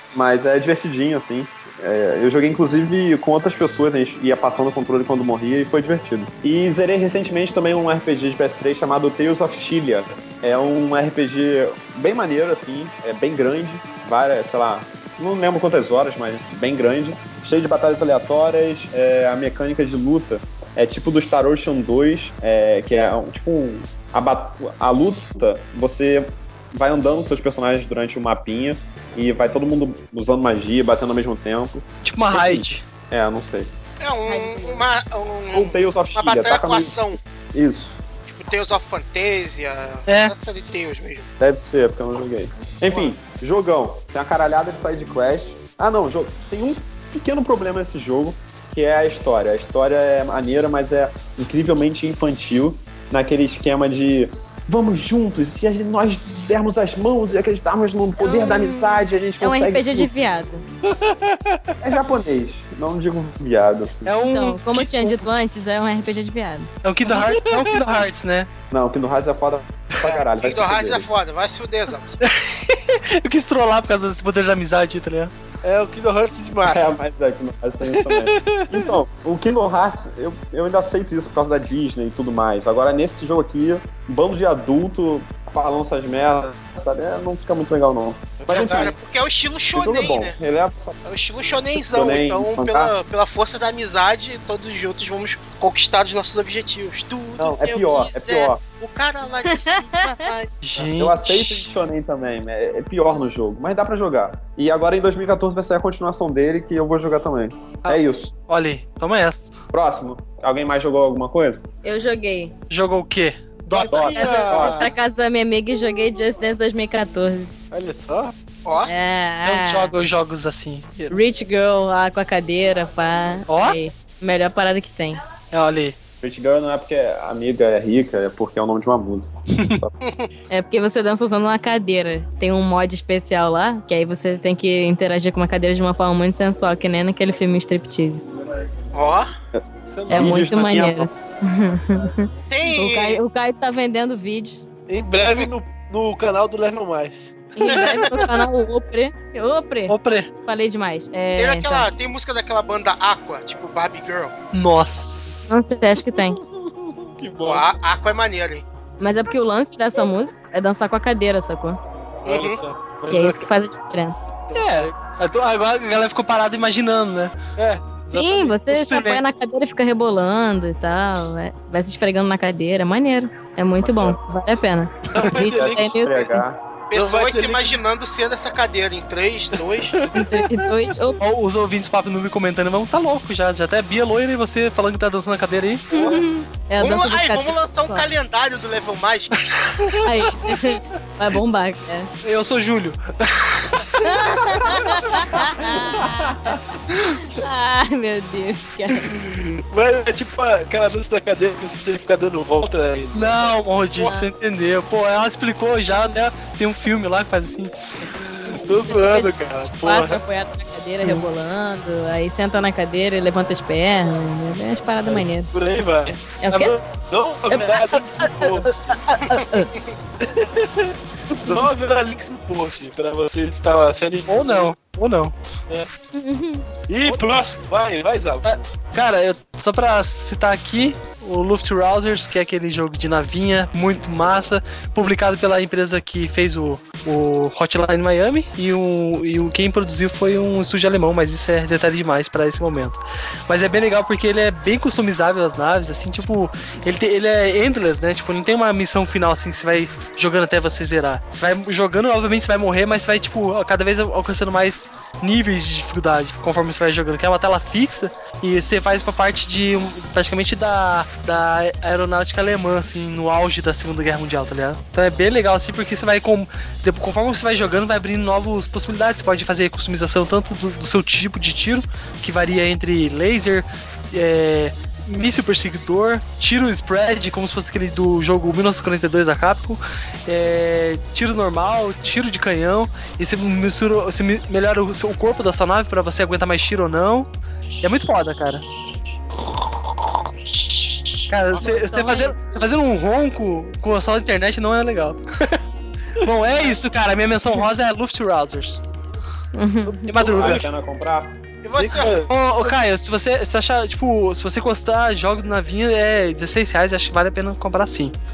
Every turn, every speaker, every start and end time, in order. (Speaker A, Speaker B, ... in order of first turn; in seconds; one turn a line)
Speaker A: 0.1-33.7
Speaker B: 32.0-32.8
Speaker C: 34.0-37.2
Speaker D: 34.2-34.9
Speaker A: 35.5-38.0
Speaker C: 38.3-41.3
Speaker B: 40.1-40.3
Speaker A: 41.4-60.1
Speaker D: 58.2-60.6
Speaker E: 60.9-61.8
Speaker A: 61.8-64.1
Speaker B: 64.0-65.2
Speaker D: 64.2-66.7
Speaker B: 66.8-68.5
Speaker E: 67.1-67.8
Speaker A: 68.7-71.1
Speaker C: 70.0-72.2
Speaker B: 72.2-75.3
Speaker E: 75.6-76.9
Speaker A: 76.6-89.0
Speaker E: 77.9-78.9
Speaker E: 88.4-88.9
Speaker C: 88.5-90.4
Speaker A: 89.7-91.0
Speaker C: 91.0-100.5
Speaker A: 91.7-92.9
Speaker A: 97.4-98.6
Speaker B: 100.6-101.6
Speaker A: 100.8-108.3
Speaker B: 108.5-109.5
Speaker A: 109.7-111.6
Speaker D: 111.8-112.5
Speaker B: 112.7-114.1
Speaker E: 113.7-114.9
Speaker A: 113.9-114.9
Speaker D: 114.1-117.5
Speaker E: 117.7-118.3
Speaker C: 118.6-118.9
Speaker D: 118.8-119.9
Speaker B: 119.4-121.2
Speaker D: 121.1-125.2
Speaker B: 123.5-123.8
Speaker B: 125.5-125.9
Speaker A: 126.2-129.9
Speaker C: 130.0-130.3
Speaker D: 130.5-138.3
Speaker C: 138.9-139.3
Speaker A: 139.5-141.1
Speaker E: 139.9-140.8
Speaker D: 140.1-144.7
Speaker C: 142.5-143.2
Speaker E: 144.9-148.3
Speaker D: 147.6-151.9
Speaker C: 147.7-148.1
Speaker B: 149.9-150.3
Speaker C: 151.3-154.3
Speaker B: 154.5-155.5
Speaker D: 155.5-156.4
Speaker E: 156.5-157.7
Speaker C: 157.4-158.6
Speaker D: 159.0-161.8
Speaker E: 162.2-163.4
Speaker C: 162.2-162.6
Speaker D: 163.1-164.3
Speaker E: 164.5-165.0
Speaker B: 164.5-167.4
Speaker E: 167.6-168.5
Speaker D: 168.1-176.4
Speaker B: 168.7-169.3
Speaker A: 173.8-174.2
Speaker E: 175.1-175.9
Speaker A: 175.3-176.6
Speaker C: 176.9-180.0
Speaker E: 176.9-177.8
Speaker E: 179.6-180.7
Speaker D: 180.1-181.2
Speaker B: 181.2-185.9
Speaker D: 185.9-188.1
Speaker C: 186.8-189.4
Speaker B: 189.5-190.0
Speaker D: 190.0-192.1
Speaker B: 192.2-193.9
Speaker D: 194.0-199.1
Speaker E: 195.6-196.1
Speaker E: 199.1-203.5
Speaker B: 203.1-207.7
Speaker E: 208.4-210.2
Speaker D: 208.9-215.5
Speaker E: 215.0-218.7
Speaker D: 216.4-216.7
Speaker D: 217.5-218.0
Speaker D: 218.6-219.7
Speaker C: 219.3-219.8
Speaker E: 220.2-224.7
Speaker B: 224.3-225.3
Speaker D: 226.1-226.7
Speaker E: 226.9-228.6
Speaker B: 228.4-287.3
Speaker B: 287.8-288.6
Speaker B: 291.3-295.6
Speaker D: 291.5-292.4
Speaker B: 296.2-298.8
Speaker D: 299.5-300.3
Speaker B: 300.1-300.6
Speaker A: 300.2-302.2
Speaker E: 300.2-300.6
Speaker C: 301.6-302.3
Speaker E: 301.9-302.2
Speaker B: 302.3-308.2